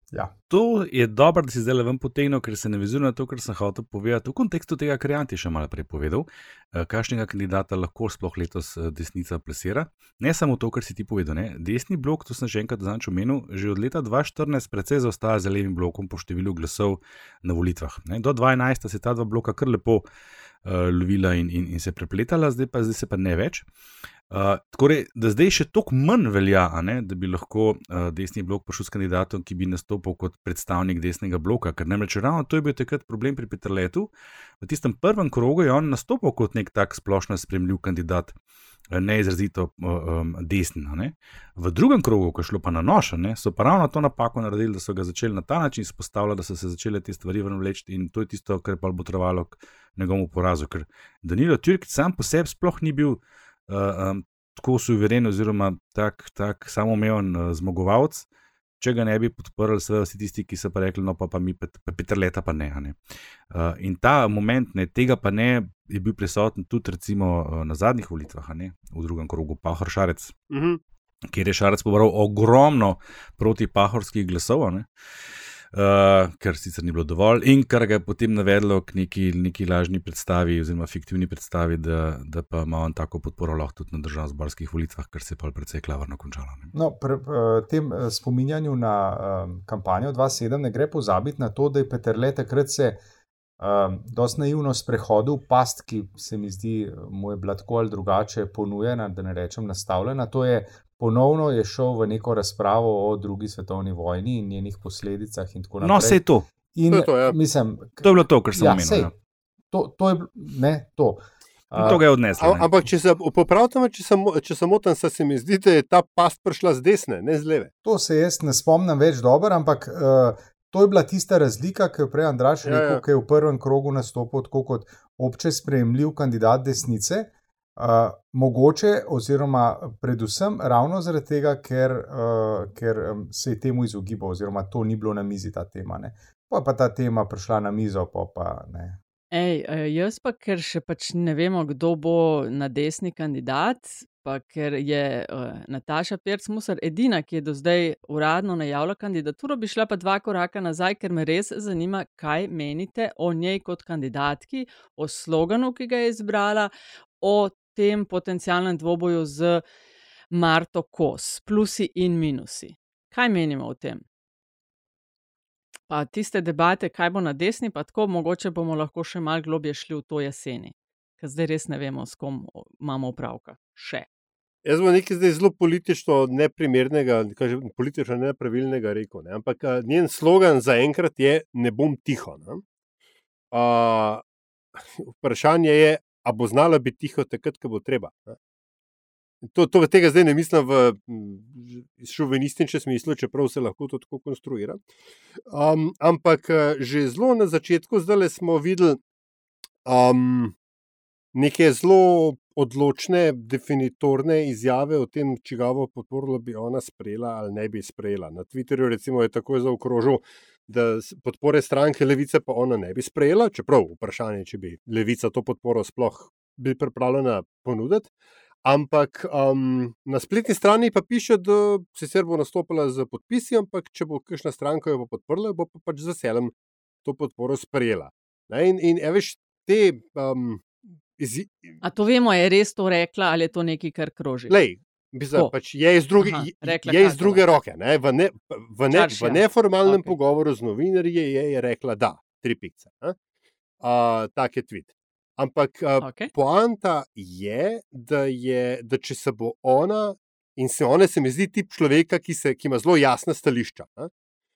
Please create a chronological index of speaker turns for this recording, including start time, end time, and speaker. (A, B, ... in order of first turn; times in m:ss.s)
0:00.5-0:20.0 A
0:20.6-0:23.6 A
0:24.3-0:34.1 A
0:34.6-0:38.3 A
0:38.9-0:58.2 A
0:58.8-1:03.0 A
1:03.5-1:10.3 A
1:10.5-1:10.8 B
1:11.3-1:14.9 A
1:15.7-1:26.7 A
1:26.7-1:33.0 C
1:33.6-1:49.1 C
1:45.8-1:46.4 A
1:46.9-1:47.4 B
1:48.0-1:49.1 A
1:49.7-1:52.0 C
1:51.8-1:52.7 A
1:51.8-1:57.7 B
1:57.8-2:19.0 C
2:02.6-2:03.0 B
2:19.3-2:39.6 D
2:40.3-2:44.0 D
2:45.9-2:54.0 D
2:54.6-3:02.6 B
3:03.5-3:04.2 B
3:05.0-3:08.4 B
3:09.4-3:14.8 B
3:15.5-3:19.0 B
3:19.8-3:20.5 B
3:21.3-3:38.1 B
3:38.6-3:46.5 B
3:47.0-3:51.8 B
3:51.8-3:54.5 D
3:54.5-4:03.2 B
3:56.2-3:57.4 D
3:58.9-4:00.1 D
4:03.8-4:14.1 B
4:06.0-4:06.3 D